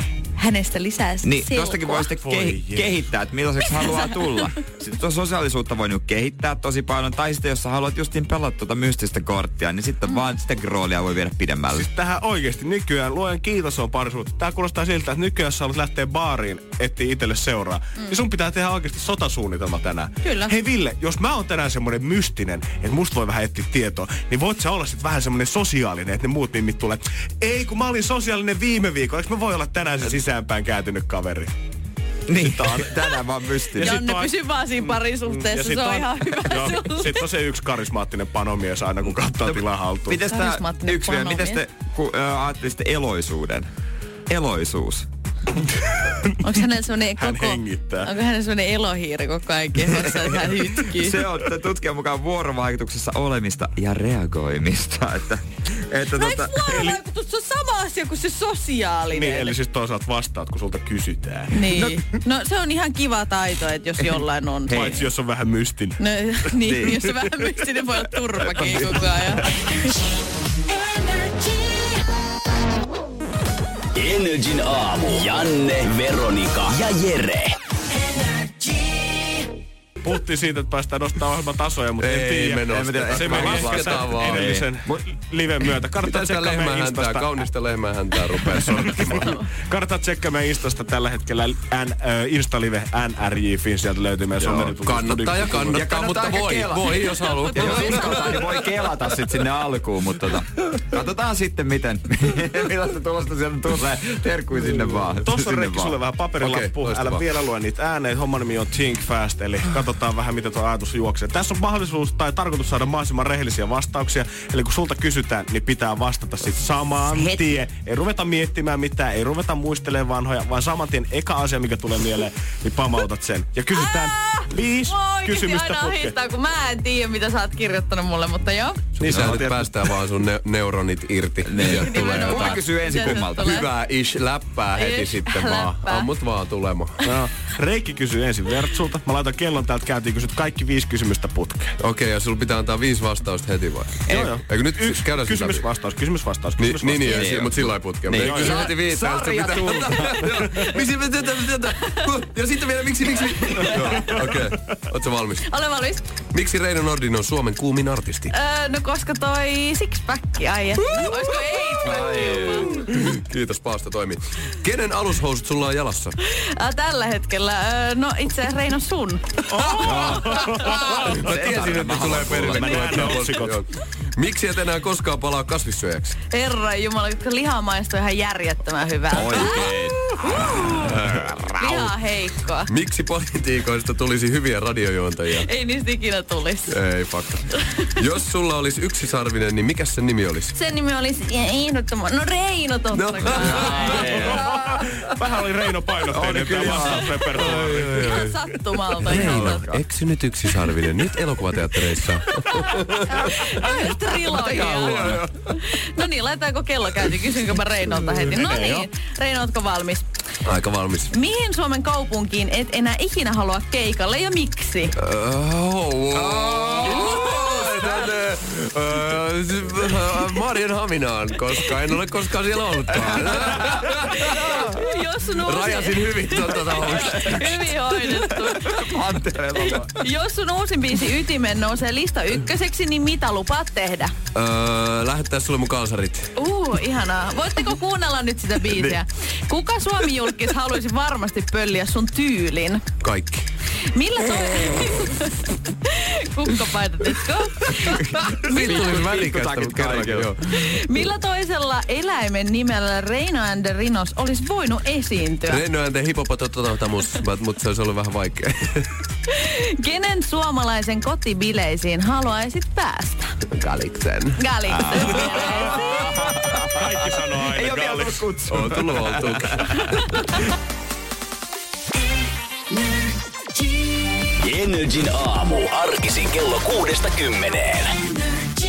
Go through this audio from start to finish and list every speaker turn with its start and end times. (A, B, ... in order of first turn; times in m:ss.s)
0:00.4-0:02.1 A
0:01.2-0:11.9 B
0:02.2-0:03.0 C
0:11.7-0:31.5 C
0:20.2-0:20.6 A
0:32.3-0:34.0 B
0:32.4-0:33.0 C
0:33.7-0:40.2 C
0:33.8-0:37.2 A
0:39.5-0:43.7 B
0:40.3-0:41.6 A
0:44.3-0:45.1 B
0:46.4-0:51.2 A
0:47.2-0:48.1 C
0:50.8-0:56.7 B
0:56.2-0:59.5 A
0:56.7-0:57.0 C
0:59.1-1:01.8 C
1:01.5-1:04.8 A
1:04.7-1:06.0 C
1:04.7-1:05.0 B
1:06.0-1:09.8 A
1:06.6-1:07.1 B
1:08.4-1:09.1 B
1:14.0-1:17.5 D
1:20.0-1:27.3 C
1:22.0-1:24.6 E
1:22.7-1:25.0 B
1:26.0-1:29.4 E
1:28.5-1:35.9 C
1:34.4-1:34.7 B
1:34.6-1:38.4 E
1:35.7-1:46.0 B
1:37.5-1:38.1 A
1:45.2-2:06.1 C
1:46.4-1:47.3 E
2:03.7-2:09.1 A
2:09.0-2:17.0 E
2:09.0-2:09.7 C
2:09.1-2:09.4 B
2:11.4-2:13.7 B
2:11.6-2:13.7 A
2:14.8-2:16.1 A
2:17.0-2:21.8 C
2:21.8-2:25.7 E
2:24.1-2:27.2 C
2:26.6-2:35.4 E
2:27.1-2:30.6 B
2:28.1-2:28.7 C
2:33.6-2:34.0 A
2:35.5-2:36.1 A
2:36.3-2:38.3 E
2:38.3-2:42.7 A
2:40.8-2:46.2 E
2:46.3-2:50.8 A
2:49.5-2:51.2 C
2:49.6-2:56.2 E
2:49.8-2:53.4 B
2:52.5-2:53.6 C
2:56.3-2:59.8 A
2:59.1-3:01.6 B
2:59.4-3:00.0 E
3:00.3-3:00.8 A
3:00.8-3:01.9 E
3:01.6-3:02.7 A
3:02.7-3:05.5 E
3:05.4-3:06.8 A
3:06.7-3:07.4 E
3:08.0-3:10.5 E
3:10.6-3:14.1 A
3:12.9-3:14.8 E
3:13.3-3:14.5 B
3:14.1-3:18.1 C
3:16.1-3:17.4 B
3:16.5-3:18.4 E
3:16.7-3:17.0 A
3:18.0-3:19.7 A
3:19.0-3:25.6 E
3:19.2-3:19.8 B
3:22.5-3:25.1 A
3:24.4-3:25.2 B
3:25.6-3:30.0 A
3:28.4-3:28.8 C
3:30.4-3:31.2 E
3:31.1-3:35.0 A
3:35.0-3:48.2 E
3:36.1-3:38.0 B
3:36.7-3:37.4 A
3:42.9-3:44.1 B
3:44.3-3:49.0 A
3:48.3-3:49.9 B
3:49.6-3:54.1 A
3:54.4-3:56.3 E
3:56.4-4:02.8 A
3:58.7-3:59.0 B
4:03.0-4:03.5 E
4:04.0-4:09.1 A
4:07.8-4:10.3 B
4:08.2-4:10.8 E
4:10.5-4:15.6 A
4:15.5-4:18.9 E
4:19.3-4:23.3 A
4:23.5-4:24.5 E
4:24.4-4:26.2 A
4:24.7-4:26.9 B
4:25.0-4:25.4 E
4:25.4-4:25.9 C
4:26.7-4:28.3 C
4:27.5-4:30.2 B
4:28.5-4:30.2 E
4:34.4-4:37.9 D